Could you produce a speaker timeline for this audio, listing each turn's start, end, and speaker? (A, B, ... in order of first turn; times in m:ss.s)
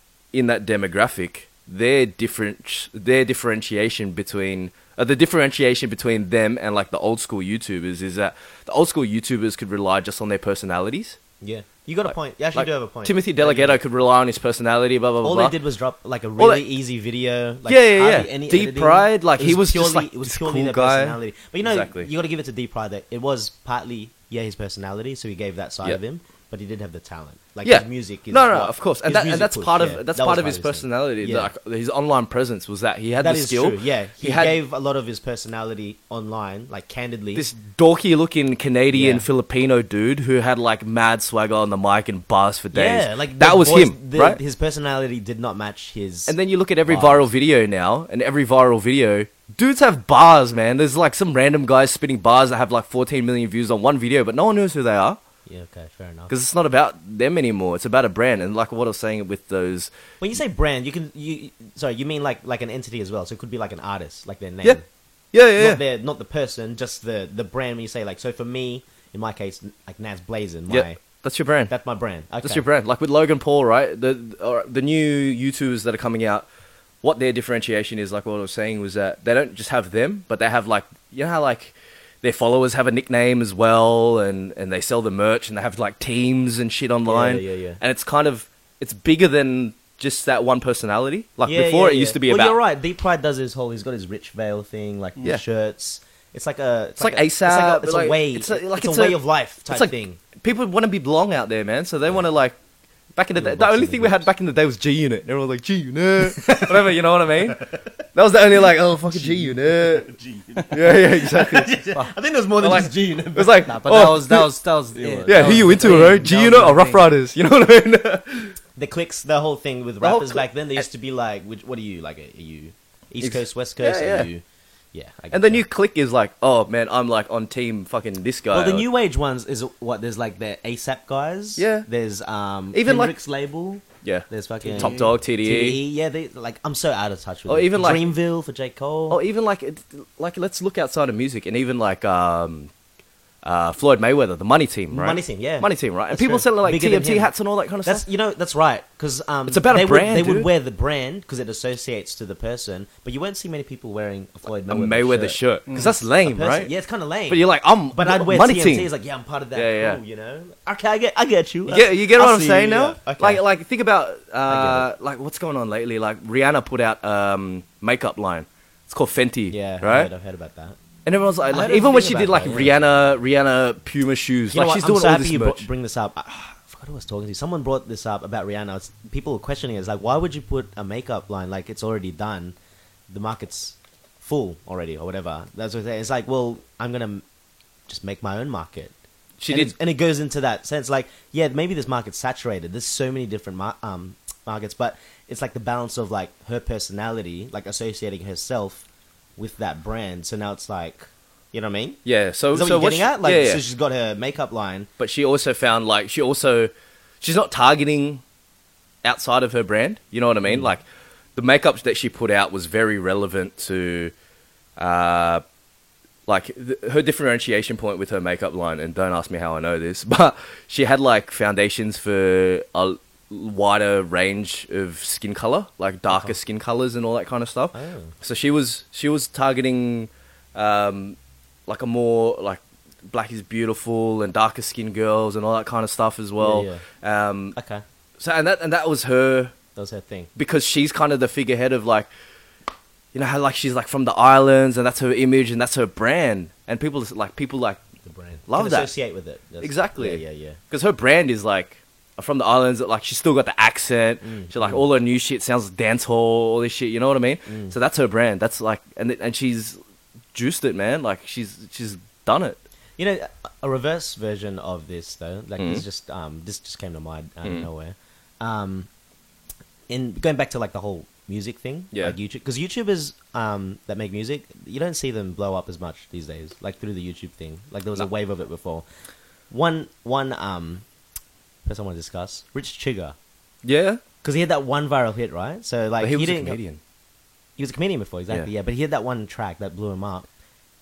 0:00.3-0:11.2 A
0:11.4-0:13.8 B
0:12.5-0:15.5 A
0:15.2-0:31.5 B
0:16.4-0:16.6 A
0:17.7-0:22.1 A
0:27.6-0:34.6 A
0:33.2-0:37.5 B
0:37.3-0:44.4 A
0:38.9-0:39.2 B
0:42.7-0:46.3 B
0:46.3-0:55.2 A
0:46.9-0:47.3 B
0:55.4-0:56.3 B
0:56.3-0:59.9 A
1:00.2-1:04.8 B
1:05.3-1:05.8 A
1:05.6-1:11.0 B
1:10.7-1:11.7 A
1:11.7-1:12.6 B
1:12.4-1:16.5 A
1:17.0-1:32.6 A
1:27.1-1:27.8 B
1:31.4-1:40.2 B
1:37.0-1:42.6 A
1:43.1-1:50.1 A
1:43.4-1:44.3 B
1:46.3-1:46.8 B
1:49.0-1:54.2 B
1:50.7-1:51.7 A
1:52.6-1:54.5 A
1:53.7-1:57.1 C
1:54.9-1:56.3 B
1:55.2-1:58.6 A
1:58.8-2:04.4 B
2:00.0-2:00.8 A
2:03.2-2:04.3 A
2:04.9-2:05.6 B
2:05.3-2:08.9 A
2:08.5-2:19.2 B
2:11.6-2:11.9 A
2:12.7-2:13.1 A
2:14.0-2:15.8 A
2:14.6-2:15.0 C
2:17.5-2:18.1 A
2:19.1-2:22.7 A
2:23.4-2:28.0 A
2:24.9-2:27.3 B
2:27.8-2:43.4 B
2:29.5-2:30.5 A
2:34.7-2:36.7 A
2:35.7-2:35.9 C
2:37.3-2:38.9 A
2:39.5-2:40.0 A
2:41.7-2:50.1 A
2:44.5-2:44.9 B
2:49.5-2:50.8 B
2:51.0-2:55.7 A
2:51.5-2:52.8 B
2:54.5-3:02.5 B
3:03.1-3:07.2 B
3:07.9-3:08.9 B
3:09.4-3:09.7 A
3:09.5-3:18.8 B
3:19.4-3:22.0 B
3:22.0-3:23.6 A
3:22.5-3:24.9 B
3:25.0-3:28.2 A
3:29.0-3:30.8 A
3:30.4-3:30.7 B
3:31.4-3:34.1 A
3:34.8-3:35.4 A
3:36.2-3:57.5 A
3:46.1-3:46.3 B
3:47.7-3:48.1 B
3:56.4-3:56.8 B
3:57.5-3:57.8 B
3:58.2-3:59.5 A
3:59.8-4:00.3 B
4:00.4-4:02.1 A
4:03.1-4:07.8 A
4:08.0-4:10.6 B
4:08.5-4:08.9 A
4:09.6-4:19.8 A
4:14.2-4:14.8 B
4:17.5-4:17.7 B
4:20.3-4:22.6 A
4:23.0-4:28.9 B
4:25.6-4:25.8 A
4:29.9-4:38.8 B
4:39.5-4:40.8 B
4:41.6-4:43.1 B
4:43.6-4:44.0 A
4:44.2-4:46.6 B
4:46.0-4:46.8 A
4:47.6-4:50.3 B